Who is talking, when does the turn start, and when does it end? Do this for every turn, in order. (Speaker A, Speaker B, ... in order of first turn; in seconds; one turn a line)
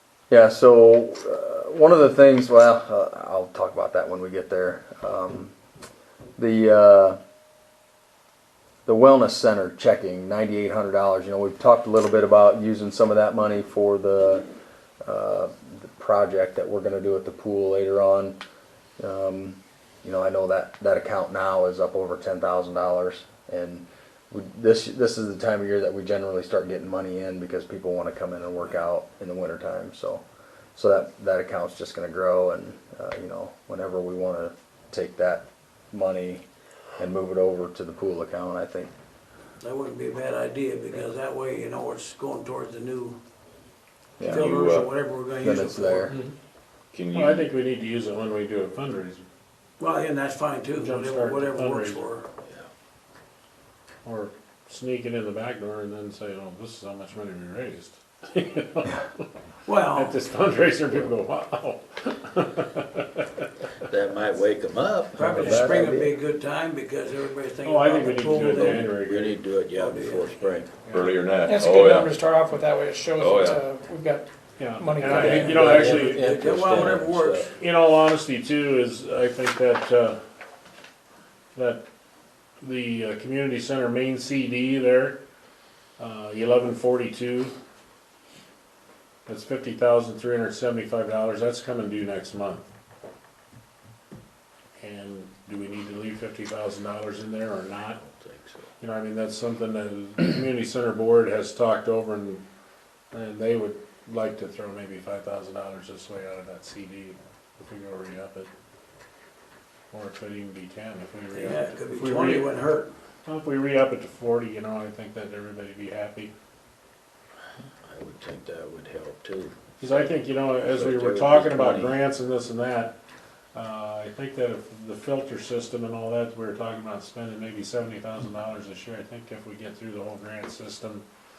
Speaker A: 0.3-5.5
Speaker A: 6.4-7.2
Speaker A: 8.8-14.4
Speaker A: 15.0-18.4
Speaker A: 19.0-30.2
Speaker A: 30.7-36.4
Speaker A: 37.0-38.9
Speaker B: 39.6-43.2
Speaker A: 44.2-44.5
Speaker C: 44.2-44.9
Speaker B: 44.2-46.1
Speaker A: 45.4-46.1
Speaker C: 46.9-47.5
Speaker D: 47.1-49.2
Speaker B: 49.8-52.3
Speaker D: 50.8-52.0
Speaker D: 54.0-59.3
Speaker B: 59.6-60.1
Speaker D: 59.9-63.5
Speaker E: 63.9-65.6
Speaker B: 65.2-68.8
Speaker A: 65.2-66.1
Speaker D: 67.6-69.4
Speaker E: 68.5-70.7
Speaker B: 69.7-70.5
Speaker D: 70.8-71.2
Speaker C: 70.9-72.2
Speaker F: 71.4-75.7
Speaker C: 73.2-73.6
Speaker D: 74.6-76.3
Speaker E: 75.0-77.5
Speaker B: 75.2-77.5
Speaker D: 77.5-80.2
Speaker D: 81.5-81.8
Speaker D: 82.6-85.2
Speaker D: 86.0-87.5
Speaker D: 89.2-92.7
Speaker D: 94.8-98.0
Speaker E: 98.0-98.7
Speaker D: 98.8-102.4
Speaker D: 103.1-108.5
Speaker D: 109.9-112.5
Speaker B: 111.3-112.9
Speaker D: 113.2-116.3
Speaker E: 117.8-122.0
Speaker D: 119.8-123.0
Speaker D: 123.5-131.0